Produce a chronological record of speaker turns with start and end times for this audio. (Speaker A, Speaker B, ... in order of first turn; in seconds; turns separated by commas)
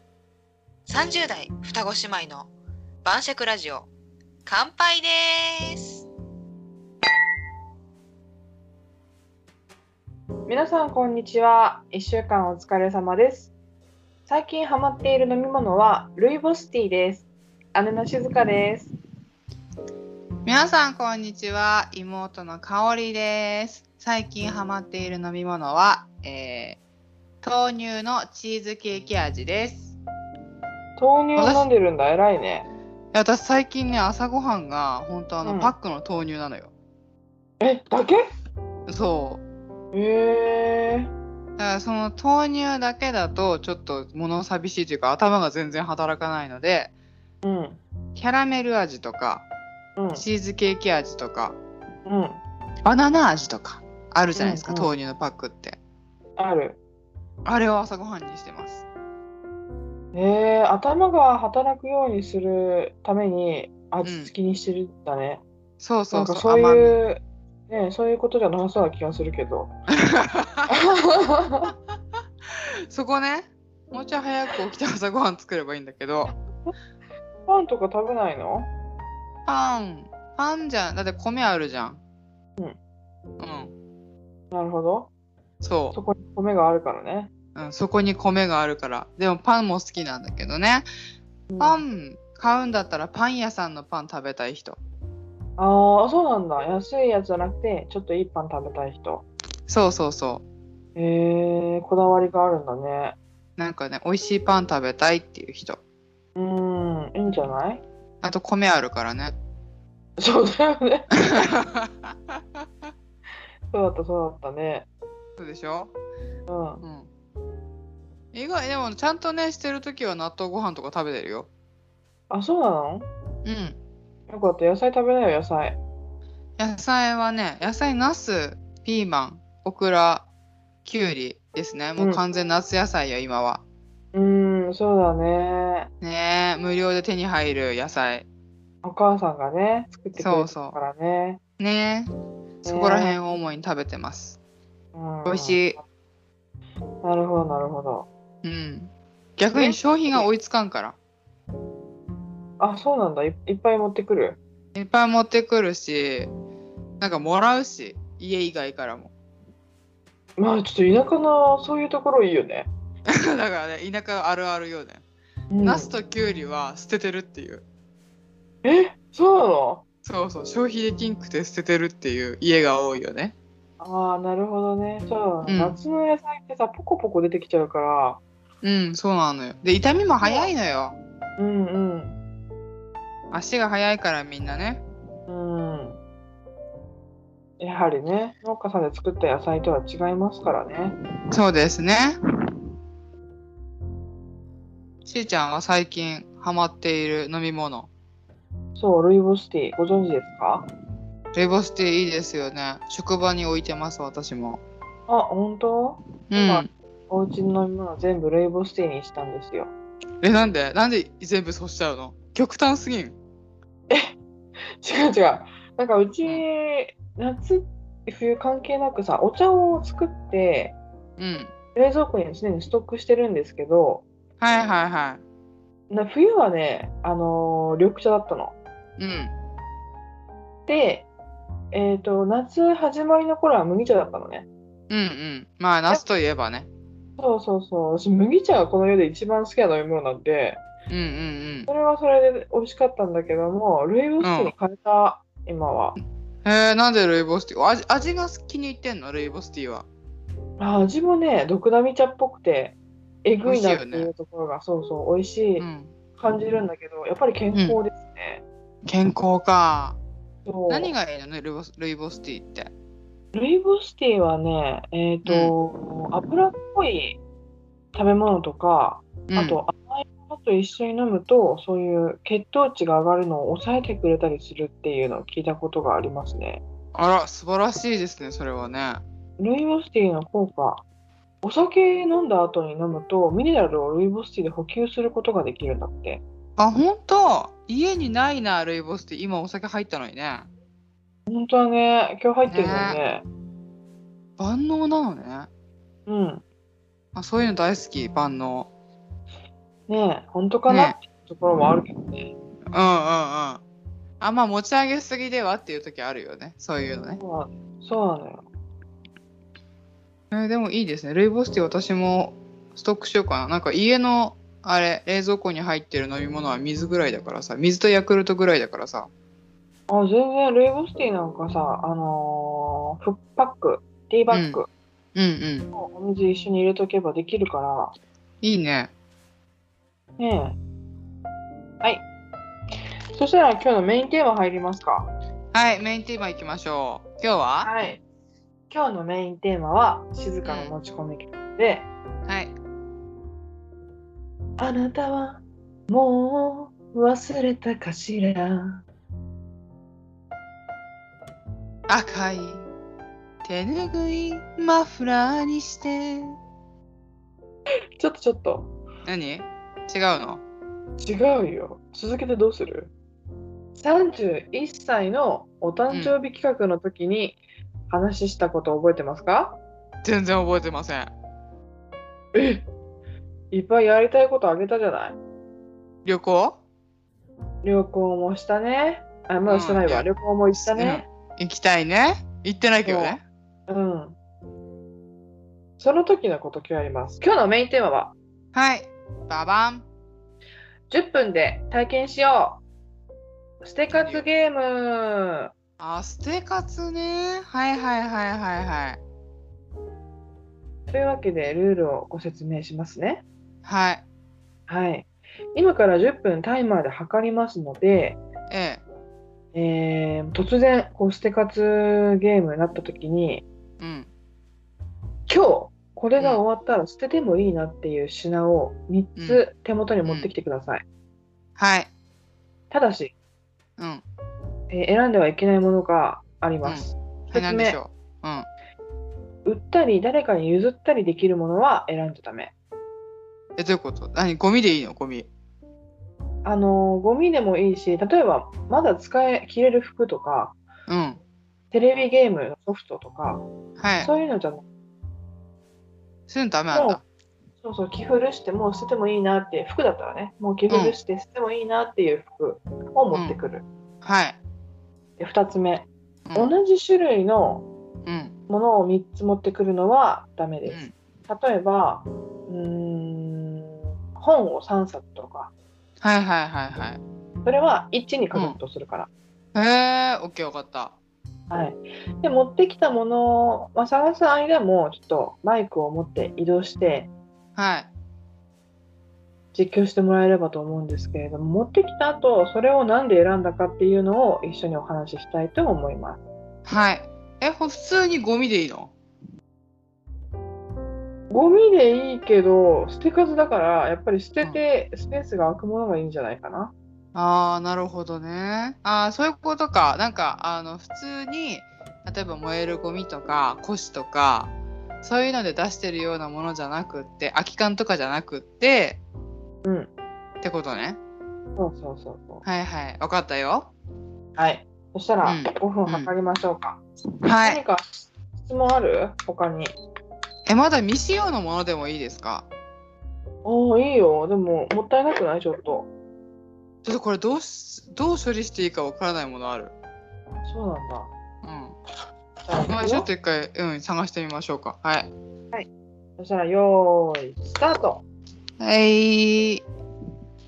Speaker A: 0.9-2.5, Speaker A: 3.0-3.9, Speaker A: 4.5-6.0, Speaker B: 10.5-13.5, Speaker B: 14.3-18.9, Speaker C: 20.4-26.8, Speaker C: 27.4-29.9, Speaker B: 31.0-32.7, Speaker C: 31.4-31.6, Speaker C: 33.1-36.7, Speaker B: 35.4-35.7, Speaker B: 37.6-38.2, Speaker C: 38.9-39.4, Speaker B: 39.9-41.1, Speaker C: 41.6-46.9, Speaker B: 47.4-47.8, Speaker C: 48.2-49.5, Speaker B: 50.0-50.2, Speaker C: 50.1-51.6, Speaker B: 52.1-52.4, Speaker C: 52.8-55.8, Speaker B: 54.3-54.9, Speaker B: 56.4-56.8, Speaker C: 57.5-58.9, Speaker B: 60.1-65.4, Speaker C: 64.0-64.3, Speaker C: 65.8-67.0, Speaker B: 66.1-69.7, Speaker C: 69.9-70.7, Speaker B: 70.7-71.7, Speaker C: 72.5-76.3, Speaker B: 77.5-78.7, Speaker C: 79.5-82.0, Speaker C: 83.4-83.7, Speaker B: 84.5-85.1, Speaker C: 85.6-86.0, Speaker B: 85.9-87.3, Speaker C: 87.5-90.9, Speaker B: 91.5-91.8, Speaker C: 91.6-94.8, Speaker B: 95.6-99.2, Speaker C: 99.7-100.4, Speaker B: 101.0-103.2, Speaker C: 103.6-105.8, Speaker B: 106.3-107.8, Speaker C: 108.2-109.3, Speaker B: 110.2-111.1, Speaker C: 111.2-112.6, Speaker B: 113.7-114.9, Speaker C: 115.4-115.9, Speaker B: 116.5-116.8, Speaker C: 116.8-117.1, Speaker C: 118.3-121.5, Speaker B: 122.3-123.1, Speaker C: 123.4-123.8, Speaker B: 124.3-125.8, Speaker C: 126.6-130.3, Speaker C: 130.8-133.6, Speaker B: 134.1-135.9, Speaker C: 136.0-138.3, Speaker B: 138.8-141.4, Speaker C: 140.2-140.8, Speaker C: 141.6-142.1, Speaker B: 142.7-143.2, Speaker C: 142.7-144.4, Speaker B: 144.9-145.8, Speaker C: 145.2-145.8, Speaker B: 147.0-148.1, Speaker C: 148.4-151.0, Speaker B: 149.5-150.3, Speaker B: 152.6-154.4, Speaker C: 154.8-156.3, Speaker C: 157.0-159.1, Speaker B: 160.4-162.7, Speaker C: 163.1-165.0, Speaker B: 165.5-165.9, Speaker C: 165.6-167.7, Speaker B: 168.6-169.8, Speaker C: 170.0-173.3, Speaker B: 173.8-178.2, Speaker C: 175.5-175.8, Speaker C: 178.6-181.0, Speaker B: 180.2-180.5, Speaker B: 181.4-182.2, Speaker C: 183.3-184.8, Speaker B: 185.3-186.0, Speaker B: 187.6-190.9, Speaker C: 191.3-192.2, Speaker C: 195.1-197.9, Speaker B: 198.8-200.7, Speaker C: 201.3-204.6, Speaker B: 205.1-209.7, Speaker C: 206.3-206.7, Speaker C: 210.2-213.2, Speaker B: 213.9-214.2, Speaker B: 214.8-220.8, Speaker C: 221.2-221.5, Speaker B: 221.8-224.1, Speaker C: 224.4-225.2, Speaker B: 225.9-228.6, Speaker C: 229.0-229.3, Speaker B: 230.7-231.1, Speaker B: 231.7-234.5, Speaker C: 234.9-236.7, Speaker B: 237.2-240.6, Speaker C: 240.9-241.7, Speaker B: 241.7-246.0, Speaker C: 244.2-244.5, Speaker C: 246.4-249.9, Speaker B: 250.6-255.7, Speaker C: 253.4-254.1, Speaker C: 255.6-255.9, Speaker B: 256.2-258.4, Speaker C: 257.5-257.8, Speaker C: 258.9-260.0, Speaker B: 260.5-260.9, Speaker C: 260.7-262.7, Speaker B: 263.3-267.2, Speaker C: 265.3-265.6, Speaker B: 267.9-276.6, Speaker C: 269.3-269.6, Speaker C: 276.9-279.0, Speaker B: 279.4-280.8, Speaker B: 281.4-286.2, Speaker C: 286.6-290.5, Speaker B: 291.3-293.2, Speaker C: 292.5-293.0, Speaker C: 294.4-295.5, Speaker B: 296.1-296.4, Speaker C: 297.1-298.7, Speaker B: 299.9-302.3, Speaker C: 300.7-301.0, Speaker C: 302.7-303.6, Speaker C: 304.2-307.2, Speaker B: 307.2-308.4, Speaker C: 310.3-319.1, Speaker B: 319.9-324.7, Speaker C: 324.3-324.6, Speaker C: 325.1-325.7, Speaker B: 325.7-327.9, Speaker C: 328.4-328.9, Speaker B: 330.2-330.6, Speaker B: 333.1-335.1, Speaker C: 335.5-337.9, Speaker B: 337.6-338.0, Speaker B: 338.7-341.9, Speaker C: 340.4-340.8, Speaker C: 342.3-342.5, Speaker B: 344.6-348.8, Speaker C: 351.9-352.6, Speaker C: 353.4-356.4, Speaker B: 358.0-358.7, Speaker C: 359.1-360.4, Speaker B: 361.0-362.9, Speaker B: 363.8-369.6, Speaker C: 365.9-366.2, Speaker C: 370.0-371.1, Speaker B: 372.3-372.7, Speaker B: 373.5-375.2, Speaker C: 376.1-376.6, Speaker B: 377.6-381.1, Speaker C: 379.5-383.2, Speaker B: 382.9-383.2, Speaker B: 383.7-384.2, Speaker B: 385.8-388.1, Speaker C: 388.5-389.9, Speaker B: 390.9-392.6, Speaker B: 393.6-395.5, Speaker C: 394.0-394.3, Speaker C: 395.8-399.0, Speaker B: 400.9-403.2, Speaker C: 403.6-404.0, Speaker B: 404.7-408.2, Speaker C: 408.5-408.8, Speaker B: 409.5-413.4, Speaker C: 413.8-414.1, Speaker B: 415.3-420.8, Speaker C: 419.2-419.4, Speaker C: 421.6-421.9, Speaker B: 422.7-423.1, Speaker C: 423.8-424.0, Speaker B: 424.7-427.8, Speaker C: 426.6-428.5, Speaker B: 429.4-432.5, Speaker C: 433.6-435.3, Speaker B: 436.4-440.6, Speaker C: 440.9-441.2, Speaker B: 441.7-443.4, Speaker C: 443.8-444.1, Speaker B: 444.0-444.6, Speaker C: 446.3-447.0, Speaker B: 446.7-447.0, Speaker B: 447.6-453.6, Speaker C: 450.7-450.9, Speaker C: 453.1-453.4, Speaker C: 454.0-454.4, Speaker B: 455.2-457.6, Speaker C: 456.3-456.5, Speaker C: 458.1-458.3, Speaker B: 458.5-465.5, Speaker C: 460.7-460.9, Speaker C: 466.0-467.0, Speaker B: 467.4-469.1, Speaker C: 469.6-471.0, Speaker B: 471.5-477.1, Speaker C: 477.6-477.9, Speaker B: 479.5-486.2, Speaker C: 486.6-488.9, Speaker B: 491.3-496.7, Speaker C: 497.1-509.0, Speaker B: 509.6-509.9, Speaker C: 510.4-511.0, Speaker B: 511.6-512.4, Speaker C: 512.5-513.7, Speaker B: 514.4-516.8, Speaker C: 515.2-516.1, Speaker C: 517.2-517.6, Speaker B: 517.4-519.8, Speaker C: 520.5-522.5, Speaker B: 523.5-525.9, Speaker C: 526.8-529.7, Speaker B: 530.5-531.1, Speaker C: 531.4-531.8, Speaker B: 532.5-533.1, Speaker C: 532.7-535.1, Speaker B: 535.5-538.0, Speaker C: 538.6-539.6